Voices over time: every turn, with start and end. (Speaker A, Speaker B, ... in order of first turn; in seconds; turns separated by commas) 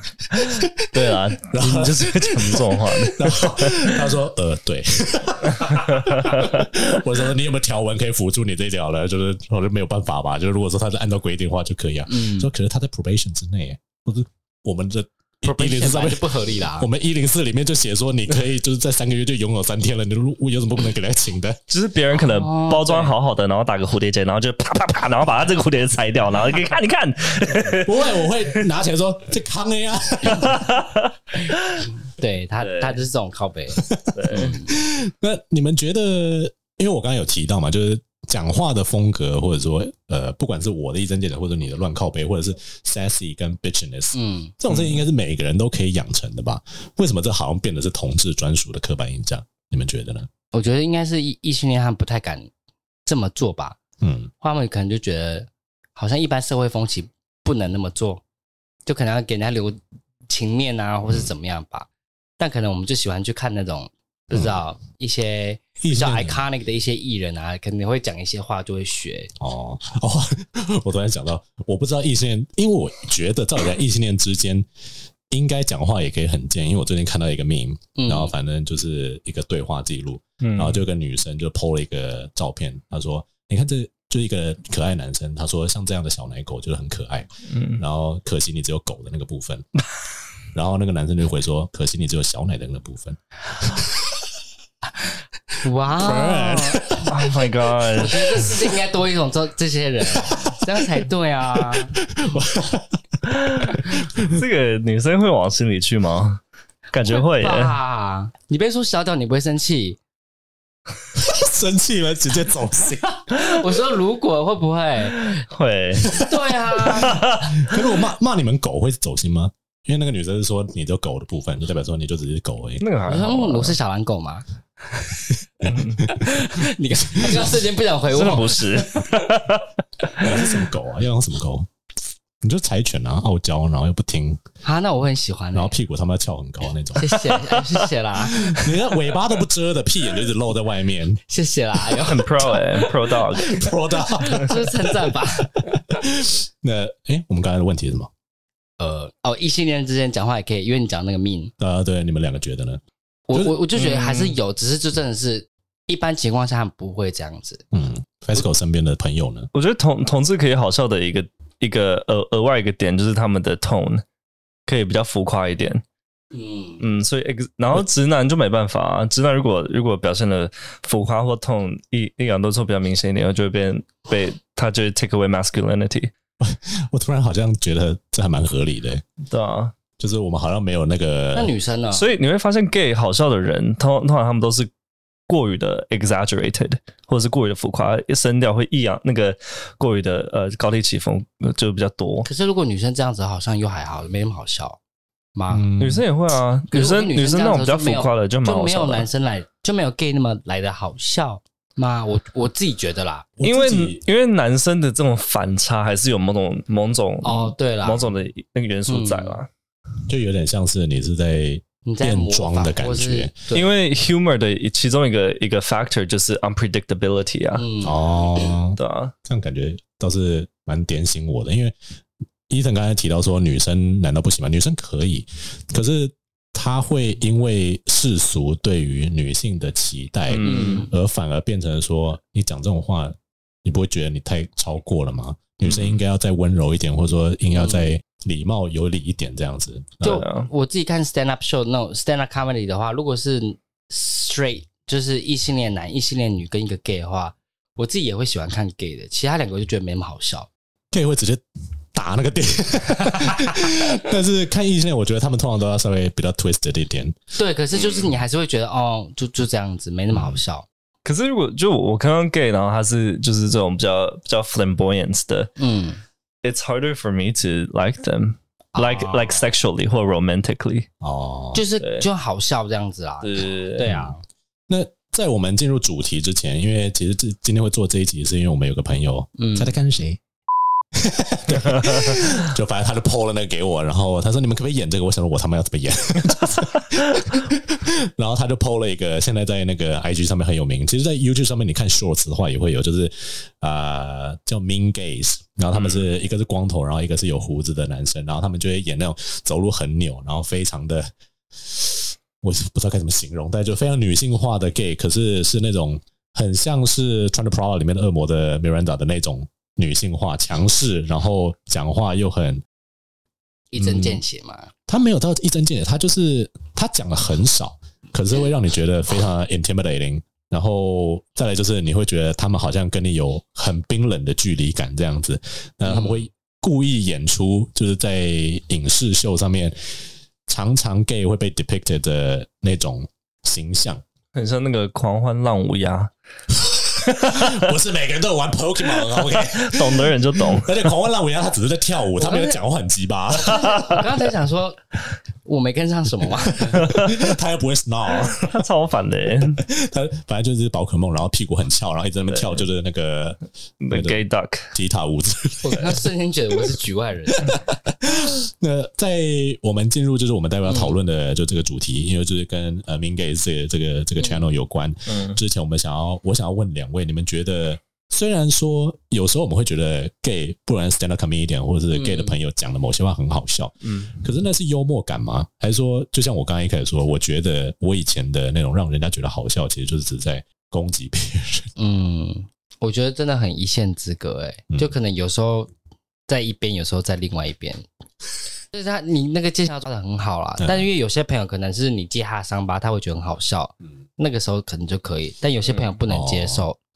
Speaker A: 0.3-21.6, Speaker B: 0.4-4.0, Speaker B: 5.5-6.7, Speaker C: 12.1-12.5, Speaker C: 15.4-16.9, Speaker B: 21.7-28.2, Speaker C: 22.1-23.1, Speaker A: 27.7-30.7, Speaker B: 30.3-31.9, Speaker C: 32.1-34.7, Speaker B: 32.6-33.0, Speaker A: 33.8-50.3, Speaker B: 34.1-34.5, Speaker C: 44.1-44.5, Speaker C: 50.5-52.5, Speaker C: 53.0-53.8, Speaker A: 54.0-54.3, Speaker C: 54.4-58.2, Speaker C: 58.9-61.9, Speaker C: 62.4-69.3, Speaker A: 64.3-64.6, Speaker A: 65.8-66.4, Speaker A: 69.4-74.7, Speaker A: 75.3-89.7, Speaker C: 78.0-78.3, Speaker B: 80.4-80.8, Speaker B: 87.5-87.8, Speaker A: 90.5-94.2, Speaker C: 95.6-96.9, Speaker A: 96.0-97.2, Speaker B: 97.0-98.5, Speaker C: 98.0-102.0, Speaker A: 98.3-98.7, Speaker A: 100.0-104.4, Speaker B: 103.3-107.8, Speaker C: 107.0-110.0, Speaker A: 111.1-113.3, Speaker C: 113.3-115.4, Speaker B: 115.1-116.2, Speaker A: 116.0-122.8, Speaker C: 116.1-117.3, Speaker B: 116.9-117.7, Speaker B: 122.8-123.8, Speaker C: 123.1-125.3, Speaker A: 125.6-126.4, Speaker B: 125.7-126.0, Speaker C: 126.0-129.0, Speaker A: 127.1-127.6, Speaker B: 128.1-130.2, Speaker A: 130.2-131.7, Speaker A: 132.4-134.4, Speaker C: 134.6-135.7, Speaker A: 135.5-137.3, Speaker C: 137.0-138.8, Speaker A: 138.2-141.2, Speaker C: 141.3-142.9, Speaker B: 141.9-143.5, Speaker A: 143.3-148.1, Speaker C: 143.4-145.7, Speaker C: 148.8-151.5, Speaker A: 151.6-152.8, Speaker C: 153.3-157.6, Speaker B: 153.7-154.4, Speaker A: 157.7-159.5, Speaker B: 159.5-164.0, Speaker B: 164.7-165.8, Speaker C: 166.3-166.8, Speaker B: 166.8-176.1, Speaker A: 176.4-179.0, Speaker B: 179.2-179.7, Speaker A: 180.0-181.5, Speaker C: 181.3-182.1, Speaker B: 181.9-184.7, Speaker B: 185.3-192.3, Speaker C: 192.2-194.8, Speaker C: 195.3-195.7, Speaker A: 195.5-196.0, Speaker B: 195.8-199.1, Speaker C: 196.7-203.3, Speaker A: 203.4-204.0, Speaker B: 203.4-209.5, Speaker C: 207.2-208.1, Speaker C: 208.9-209.4, Speaker A: 210.1-213.3, Speaker C: 211.8-213.7, Speaker B: 213.5-217.6, Speaker C: 217.6-218.5, Speaker A: 217.8-221.8, Speaker B: 218.8-219.1, Speaker A: 222.5-240.2, Speaker B: 230.3-230.9, Speaker C: 230.4-230.9, Speaker C: 237.5-237.9, Speaker B: 240.0-240.5, Speaker C: 240.0-250.5, Speaker A: 250.9-257.1, Speaker C: 257.4-260.7, Speaker B: 257.7-258.1, Speaker A: 260.1-260.4, Speaker B: 261.0-265.5, Speaker C: 265.6-266.0, Speaker B: 266.4-270.9, Speaker C: 268.7-269.5, Speaker A: 271.0-271.6, Speaker C: 271.5-274.2, Speaker B: 271.8-272.1, Speaker B: 273.2-273.9, Speaker A: 273.8-274.2, Speaker A: 274.7-280.2, Speaker C: 279.4-279.7, Speaker A: 280.9-312.6, Speaker B: 281.7-282.1, Speaker B: 295.7-296.0, Speaker C: 313.7-314.7, Speaker A: 313.8-314.2, Speaker A: 314.9-329.8, Speaker C: 325.9-326.2, Speaker A: 330.5-334.0, Speaker B: 334.3-336.1, Speaker A: 336.5-343.9, Speaker B: 337.0-337.6, Speaker B: 339.0-340.8, Speaker C: 342.1-342.6, Speaker C: 343.3-344.8, Speaker B: 343.5-344.0, Speaker C: 345.4-346.7, Speaker A: 346.5-348.6, Speaker B: 346.7-347.3, Speaker B: 348.3-349.6, Speaker A: 349.6-353.4, Speaker B: 352.3-352.6, Speaker B: 353.8-354.7, Speaker A: 353.9-356.7, Speaker C: 355.6-357.6, Speaker A: 357.4-381.7, Speaker C: 360.7-360.9, Speaker C: 364.2-364.5, Speaker B: 365.1-365.4, Speaker C: 371.9-372.4, Speaker B: 373.8-374.1, Speaker C: 381.8-385.7, Speaker C: 386.3-387.8, Speaker C: 388.7-396.8, Speaker A: 390.6-390.9, Speaker A: 396.1-396.6